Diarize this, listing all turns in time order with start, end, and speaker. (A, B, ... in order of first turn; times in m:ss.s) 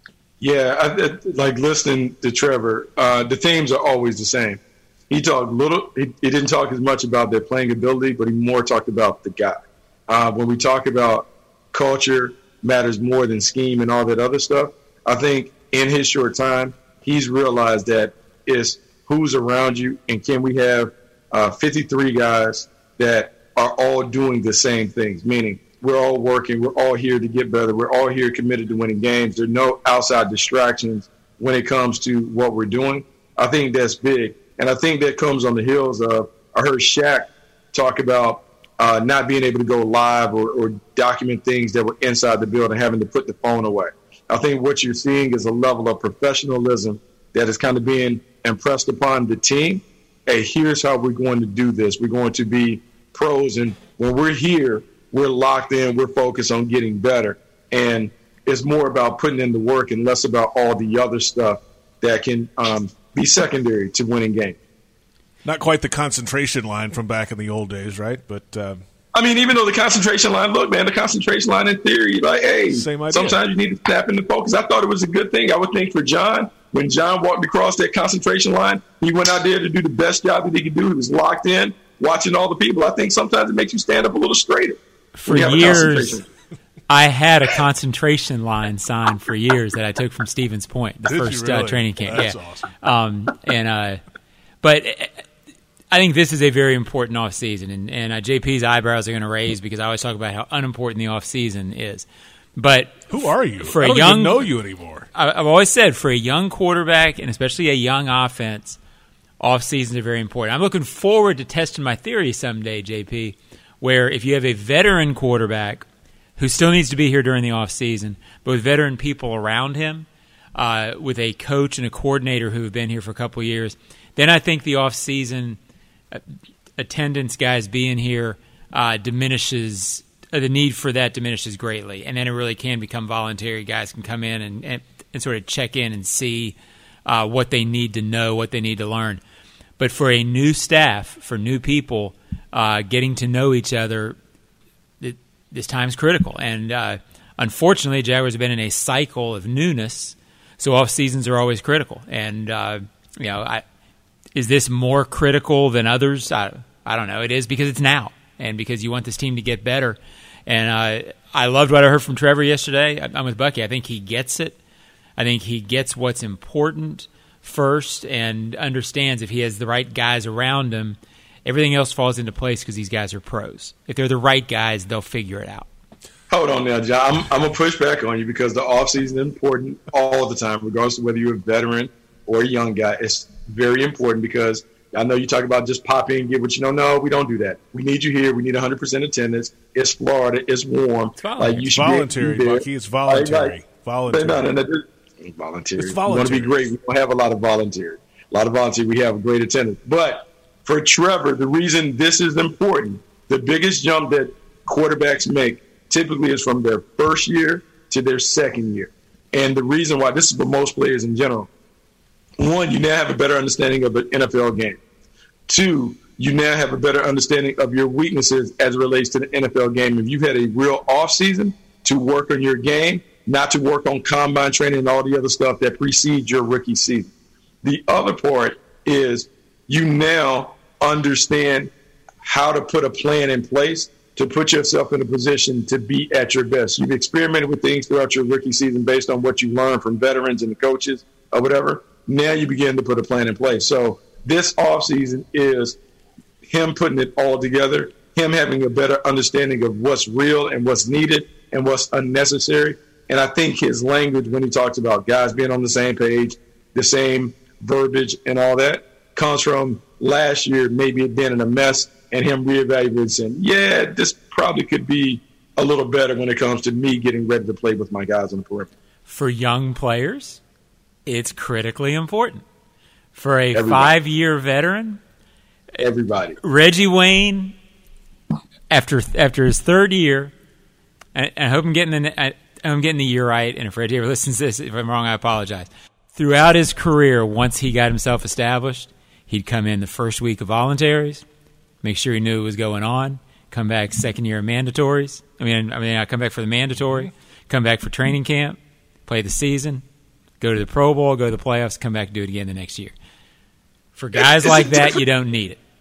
0:00.4-1:04.6 A
1:05.4-1:08.8 B
1:09.1-1:26.3 A
1:12.7-1:13.4 B
1:25.2-1:26.2 C
1:26.9-1:34.0 C
1:31.0-1:32.7 B
1:34.6-1:35.2 C
1:35.9-1:44.5 C
1:43.1-1:45.1 B
1:45.1-1:48.8 C
1:49.4-1:55.9 C
1:56.4-2:05.6 C
2:06.8-2:19.2 C
2:19.8-2:24.2 C
2:25.0-2:33.6 C
2:34.4-2:44.6 C
2:45.2-2:55.7 C
2:56.3-3:13.6 A
3:11.2-3:11.7 C
3:11.7-3:14.5 B
3:14.1-3:31.5 A
3:15.8-3:16.7 B
3:32.4-3:34.8 A
3:35.5-3:47.1 A
3:47.6-3:51.7 A
3:52.2-4:05.8 A
4:06.4-4:28.7 A
4:29.1-4:30.4 C
4:31.1-4:32.4 C
4:33.2-4:35.0 C
4:33.5-4:33.9 A
4:35.8-4:36.4 A
4:36.4-4:37.6 C
4:38.7-4:40.3 C
4:41.2-4:51.2 C
4:51.8-4:59.8 C
4:56.8-4:57.1 B
5:00.4-5:02.9 C
5:04.0-5:05.6 C
5:04.2-5:05.0 A